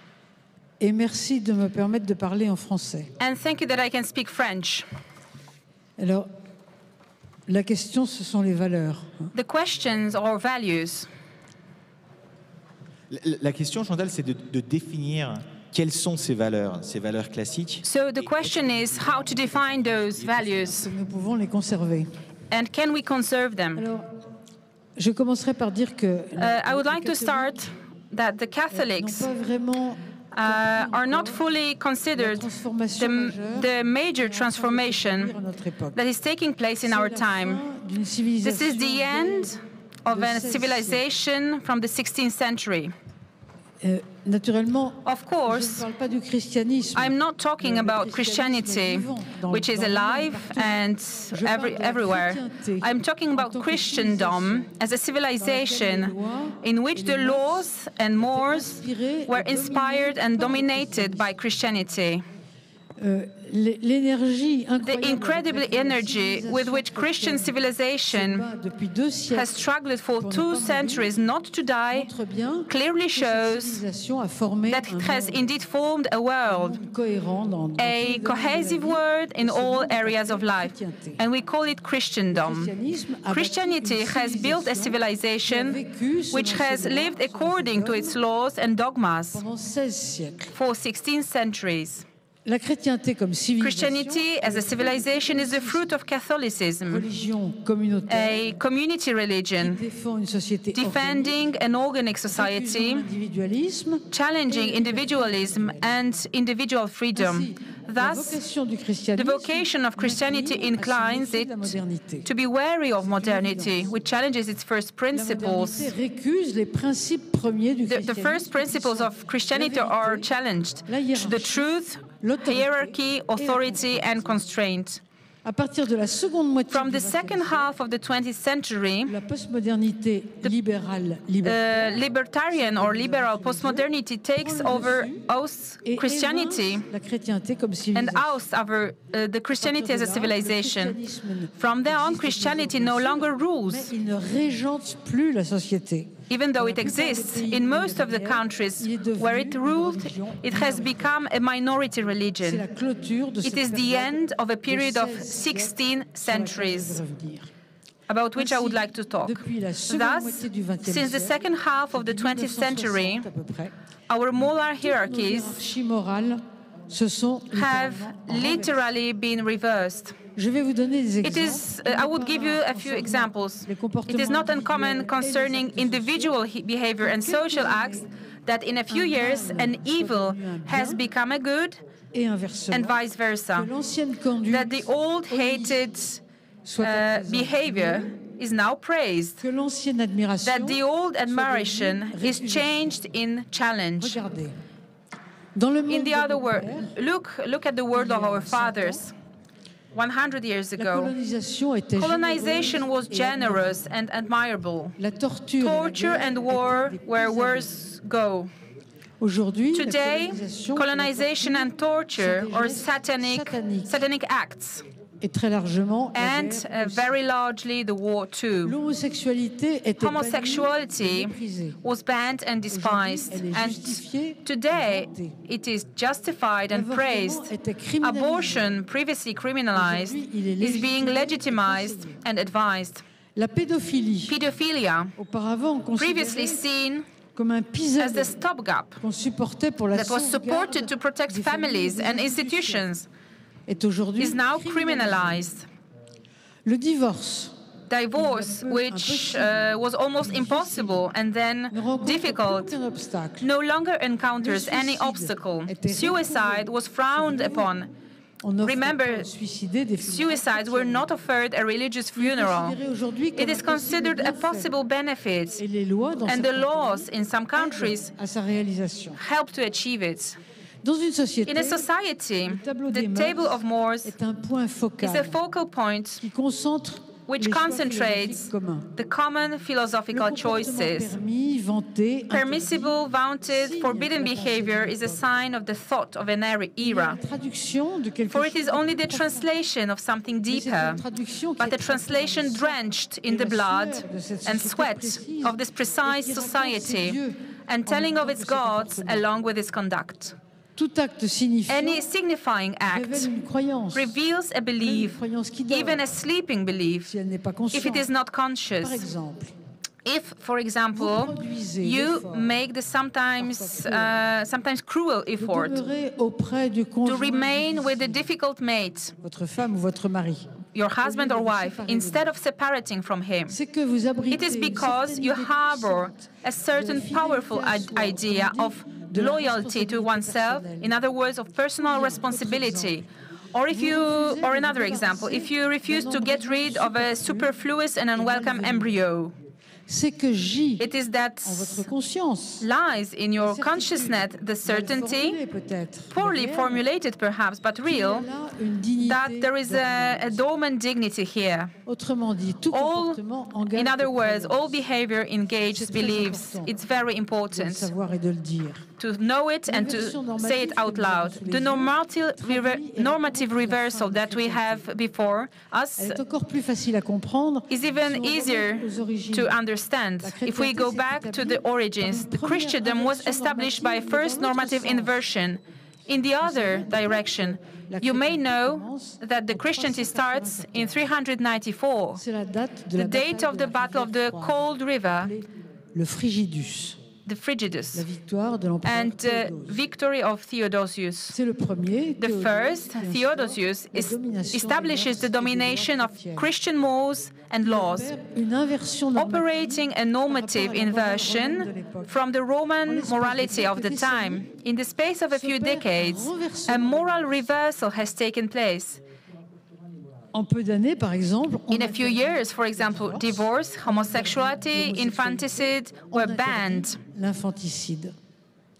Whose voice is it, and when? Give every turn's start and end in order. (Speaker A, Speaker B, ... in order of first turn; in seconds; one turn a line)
Speaker A: 0.8-3.1
Speaker B: 3.2-4.9
Speaker A: 6.0-6.3
Speaker A: 7.5-9.3
Speaker B: 9.3-11.1
Speaker C: 13.1-17.9
Speaker B: 17.8-20.9
Speaker C: 20.2-20.6
Speaker A: 20.6-22.1
Speaker B: 22.5-23.9
Speaker A: 23.8-24.1
Speaker A: 25.0-27.6
Speaker B: 26.4-29.3
Speaker A: 28.7-31.4
Speaker B: 30.3-35.4
Speaker A: 32.2-36.0
Speaker B: 36.0-37.6
Speaker A: 36.8-39.5
Speaker B: 38.4-42.9
Speaker A: 40.1-41.0
Speaker A: 43.8-54.7
Speaker B: 45.0-45.9
Speaker B: 47.0-62.2
Speaker A: 55.4-61.3
Speaker A: 63.0-67.5
Speaker B: 64.8-68.5
Speaker A: 68.1-69.5
Speaker B: 69.3-72.1
Speaker A: 70.2-71.2
Speaker A: 71.9-75.4
Speaker B: 72.7-73.8
Speaker B: 74.7-76.8
Speaker A: 76.4-81.2
Speaker B: 77.8-82.7
Speaker A: 82.3-88.2
Speaker B: 83.3-89.4
Speaker A: 89.3-90.5
Speaker B: 90.5-92.1
Speaker A: 92.5-95.9
Speaker B: 93.6-97.1
Speaker A: 96.9-98.5
Speaker B: 98.1-99.8
Speaker A: 99.6-101.4
Speaker B: 100.8-103.1
Speaker A: 102.3-105.9
Speaker B: 104.1-108.4
Speaker A: 107.2-112.3
Speaker B: 109.2-111.8
Speaker B: 112.3-115.9
Speaker A: 113.0-113.9
Speaker A: 115.1-120.3
Speaker B: 117.9-125.0
Speaker A: 120.9-124.4
Speaker A: 125.4-127.7
Speaker B: 126.7-129.2
Speaker A: 129.1-135.3
Speaker B: 131.4-136.8
Speaker A: 135.8-138.4
Speaker B: 137.9-141.0
Speaker A: 139.5-151.1
Speaker B: 141.6-143.9
Speaker B: 146.3-152.6
Speaker A: 152.4-157.5
Speaker B: 153.4-157.0
Speaker B: 158.1-163.3
Speaker A: 158.3-161.4
Speaker A: 161.9-163.7
Speaker B: 164.1-165.6
Speaker A: 164.8-168.8
Speaker B: 167.5-170.2
Speaker A: 170.3-176.4
Speaker B: 171.2-181.8
Speaker A: 177.0-178.1
Speaker A: 178.9-181.0
Speaker A: 182.1-183.0
Speaker B: 182.7-183.7
Speaker A: 183.5-185.9
Speaker B: 184.5-186.2
Speaker A: 186.6-188.1
Speaker B: 186.8-189.4
Speaker A: 189.4-192.9
Speaker B: 190.4-194.2
Speaker A: 194.0-194.6
Speaker A: 195.6-196.9
Speaker B: 195.9-199.1
Speaker A: 197.9-199.0
Speaker B: 199.9-201.1
Speaker A: 200.8-203.8
Speaker B: 202.0-204.9
Speaker A: 205.0-207.7
Speaker B: 205.6-208.5
Speaker A: 209.2-214.0
Speaker B: 209.7-214.9
Speaker A: 215.2-217.1
Speaker B: 216.1-218.8
Speaker A: 218.6-221.8
Speaker B: 220.0-227.5
Speaker A: 222.7-225.4
Speaker A: 226.7-228.7
Speaker B: 228.0-233.0
Speaker A: 229.8-232.2
Speaker A: 233.4-234.4
Speaker B: 234.3-235.1
Speaker A: 235.2-236.6
Speaker B: 236.0-237.1
Speaker A: 237.3-238.4
Speaker B: 238.0-239.0
Speaker A: 239.0-242.9
Speaker B: 239.9-243.1
Speaker A: 243.7-245.5
Speaker B: 244.2-245.7
Speaker A: 246.7-247.5
Speaker B: 247.9-252.8
Speaker A: 248.2-249.6
Speaker A: 250.2-251.0
Speaker A: 251.7-253.5
Speaker B: 253.4-257.9
Speaker A: 254.4-257.7
Speaker A: 258.4-261.1
Speaker B: 258.6-259.3
Speaker B: 260.0-262.8
Speaker A: 262.2-264.7
Speaker B: 263.4-265.6
Speaker A: 265.6-269.2
Speaker B: 266.3-268.1
Speaker B: 269.2-270.4
Speaker A: 270.8-271.9
Speaker B: 271.5-274.1
Speaker A: 272.4-275.4
Speaker B: 275.0-276.2
Speaker A: 276.2-278.9
Speaker B: 277.3-281.1
Speaker A: 280.1-285.2
Speaker B: 282.3-287.2
Speaker A: 286.8-289.5
Speaker B: 288.3-291.0
Speaker A: 290.5-299.3
Speaker B: 291.6-300.4
Speaker A: 300.8-302.1
Speaker B: 301.7-303.3
Speaker A: 302.9-304.1
Speaker B: 303.9-307.1
Speaker A: 304.8-306.1
Speaker A: 307.1-308.1
Speaker B: 307.7-309.1
Speaker A: 308.8-309.5
Speaker B: 310.0-315.8
Speaker A: 310.9-312.5
Speaker A: 313.4-314.2
Speaker A: 315.4-318.2
Speaker B: 317.1-319.1
Speaker A: 319.2-320.5
Speaker B: 320.7-323.6
Speaker A: 321.0-322.3
Speaker A: 323.5-330.9
Speaker B: 324.3-339.4
Speaker A: 331.8-333.1
Speaker A: 333.7-337.5
Speaker A: 338.1-339.0
Speaker A: 339.9-340.9
Speaker B: 340.8-341.9
Speaker A: 341.4-342.7
Speaker B: 342.6-345.4
Speaker A: 343.4-346.9
Speaker B: 346.1-348.3
Speaker A: 347.9-350.4
Speaker B: 349.0-351.7
Speaker A: 351.9-354.8
Speaker B: 352.7-353.2
Speaker B: 353.7-357.9
Speaker A: 355.7-356.7
Speaker A: 357.5-358.9
Speaker B: 359.0-366.2
Speaker A: 359.7-364.9
Speaker A: 366.0-369.6
Speaker B: 367.7-382.2
Speaker A: 370.2-375.2
Speaker A: 376.4-381.0
Speaker A: 382.1-387.0
Speaker B: 383.0-385.3
Speaker B: 387.2-388.1
Speaker A: 387.9-389.8
Speaker B: 388.8-391.4
Speaker A: 391.3-396.5
Speaker B: 392.2-398.1
Speaker A: 397.6-402.1
Speaker B: 399.1-409.0
Speaker A: 402.9-404.4
Speaker A: 405.3-407.0
Speaker A: 410.3-418.1
Speaker B: 411.7-417.0